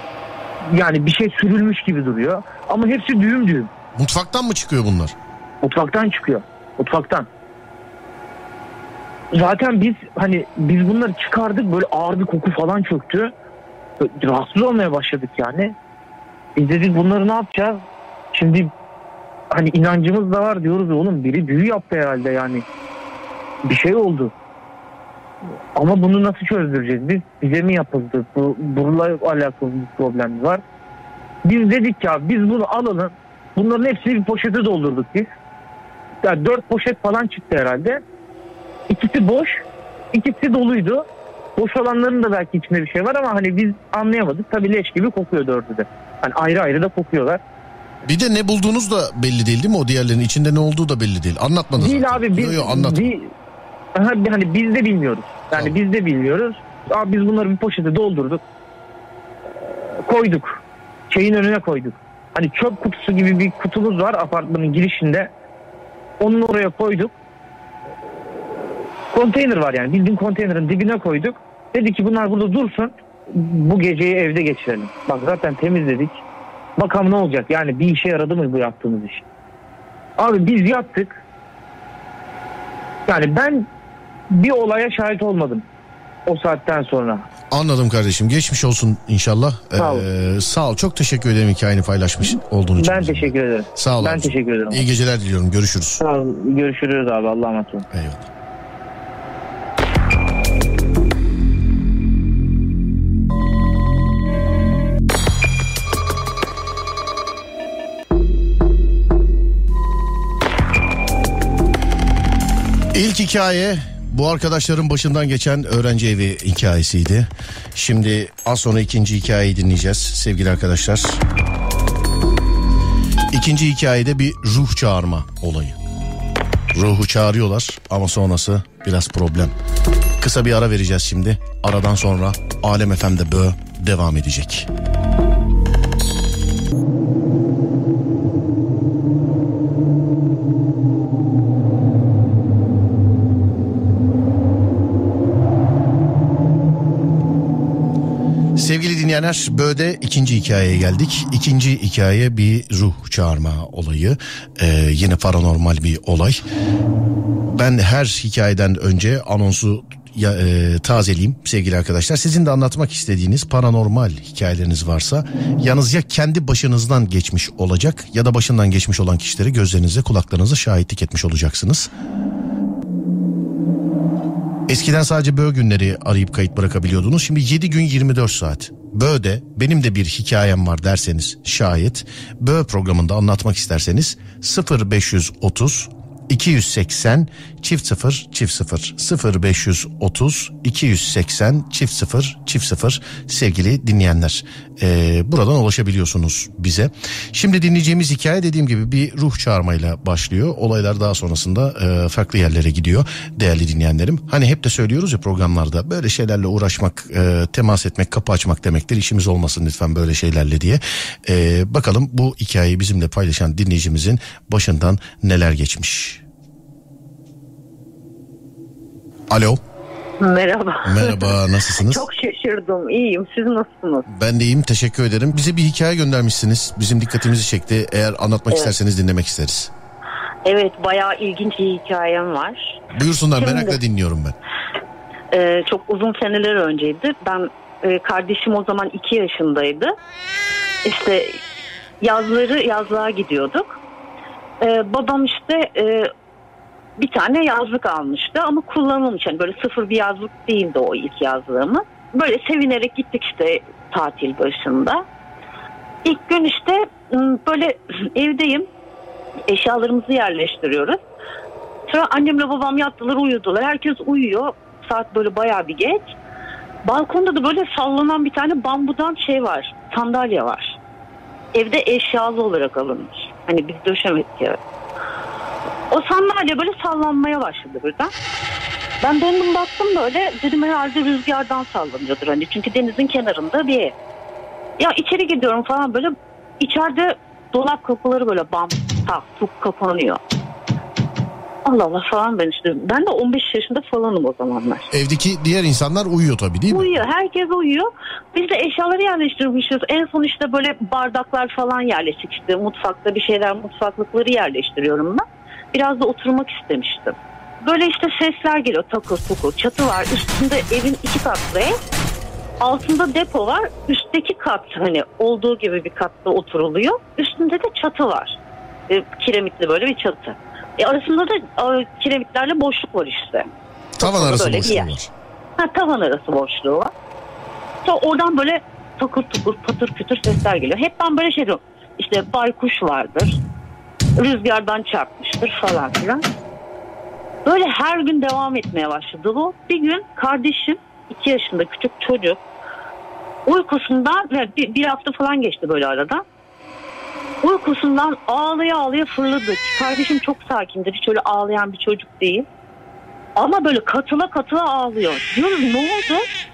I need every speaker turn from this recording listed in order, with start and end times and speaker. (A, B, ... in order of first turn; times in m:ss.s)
0:00.6-0:03.7 A
0:04.0-0:05.2 B
0:05.6-0:07.3 A
0:09.3-0:13.3 A
0:14.0-0:15.8 A
0:16.6-0:18.7 A
0:19.5-0:22.6 A
0:23.6-0:24.3 A
0:25.8-0:30.6 A
0:31.4-0:35.3 A
0:36.2-0:38.0 A
0:38.9-0:47.4 A
0:48.1-0:53.1 B
0:51.8-0:53.3 A
0:54.0-0:58.4 A
0:59.9-1:05.3 A
1:06.2-1:07.2 A
1:09.1-1:16.2 A
1:16.8-1:19.2 A
1:20.2-1:21.2 A
1:23.1-1:23.7 A
1:24.3-1:25.7 A
1:26.3-1:27.3 A
1:27.5-1:36.0 B
1:29.8-1:30.1 A
1:32.8-1:34.8 A
1:36.0-1:37.9 A
1:37.9-1:38.3 B
1:52.9-2:01.2 B
2:03.3-2:05.8 B
2:06.7-2:09.5 B
2:10.2-2:14.7 B
2:28.6-2:36.4 B
2:37.5-2:51.9 B
2:54.7-3:36.2 B
3:39.3-3:39.6 B
3:40.2-3:44.1 C
3:40.8-3:42.0 B
3:44.1-3:49.7 B
3:50.4-3:52.8 C
3:52.9-3:54.4 B
3:53.4-3:53.8 C
3:55.3-3:59.9 C
4:00.8-4:01.4 C
4:02.0-4:03.8 C
4:04.6-4:06.1 C
4:07.0-4:15.0 C
4:16.0-4:18.7 C
4:19.5-4:21.0 C
4:21.9-4:26.1 C
4:26.8-4:30.8 C
4:31.5-4:34.6 C
4:35.9-4:38.1 C
4:39.0-4:44.0 C
4:44.8-4:50.2 C
4:51.6-4:54.9 C
4:54.9-4:57.0 B
4:56.7-5:11.8 C
5:12.6-5:18.4 C
5:18.9-5:23.5 C
5:24.0-5:25.1 B
5:24.0-5:24.9 C
5:25.6-5:26.9 C
5:27.8-5:33.4 C
5:34.2-5:36.2 C
5:37.4-5:42.4 C
5:43.5-5:46.2 C
5:47.4-5:52.5 C
5:53.4-5:56.3 C